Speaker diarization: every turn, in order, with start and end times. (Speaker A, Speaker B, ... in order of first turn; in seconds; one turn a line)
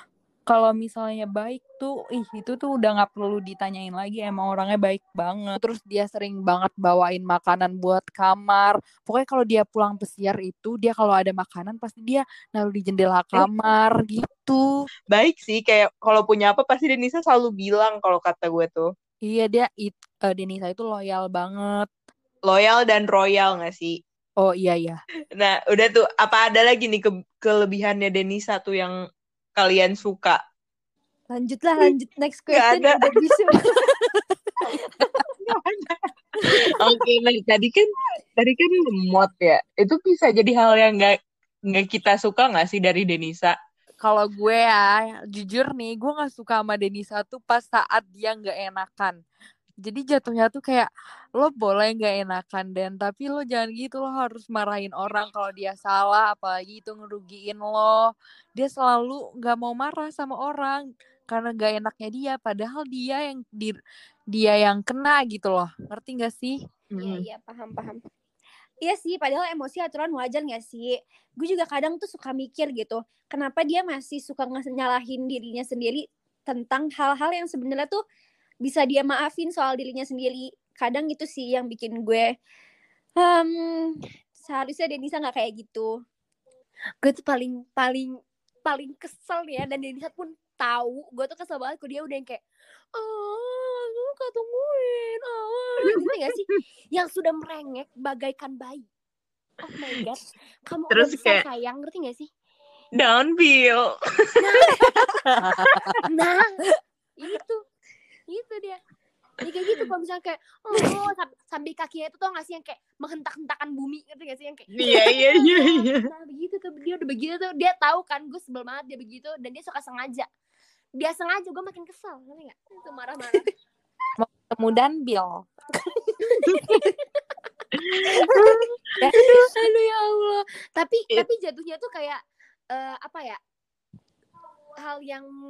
Speaker A: 0.5-14.8
Speaker B: 15.1-18.9
Speaker A: 19.2-21.9
Speaker B: 22.4-24.0
Speaker A: 24.4-25.0
Speaker B: 25.4-29.0
Speaker B: 29.6-30.4
Speaker C: 31.3-35.1
Speaker B: 32.5-33.1
Speaker B: 35.4-41.1
Speaker C: 36.4-36.7
Speaker B: 41.7-43.5
Speaker A: 44.0-49.2
Speaker A: 49.8-63.8
Speaker A: 64.3-66.6
Speaker B: 67.0-67.2
Speaker C: 67.0-68.0
Speaker C: 68.8-78.0
Speaker C: 78.6-82.3
Speaker C: 83.2-85.9
Speaker D: 87.0-92.4
Speaker D: 92.9-98.9
Speaker B: 95.8-96.6
Speaker D: 99.6-102.3
Speaker B: 100.9-101.4
Speaker B: 103.0-106.0
Speaker D: 104.4-105.0
Speaker A: 105.6-105.8
Speaker D: 106.0-106.6
Speaker D: 107.2-107.6
Speaker D: 108.3-108.8
Speaker D: 109.4-120.3
Speaker B: 114.7-116.1
Speaker D: 121.0-123.5
Speaker A: 124.2-125.5
Speaker D: 126.2-127.0
Speaker B: 127.7-128.6
Speaker A: 129.0-129.3
Speaker D: 129.1-132.2
Speaker D: 132.7-133.4
Speaker D: 134.8-135.3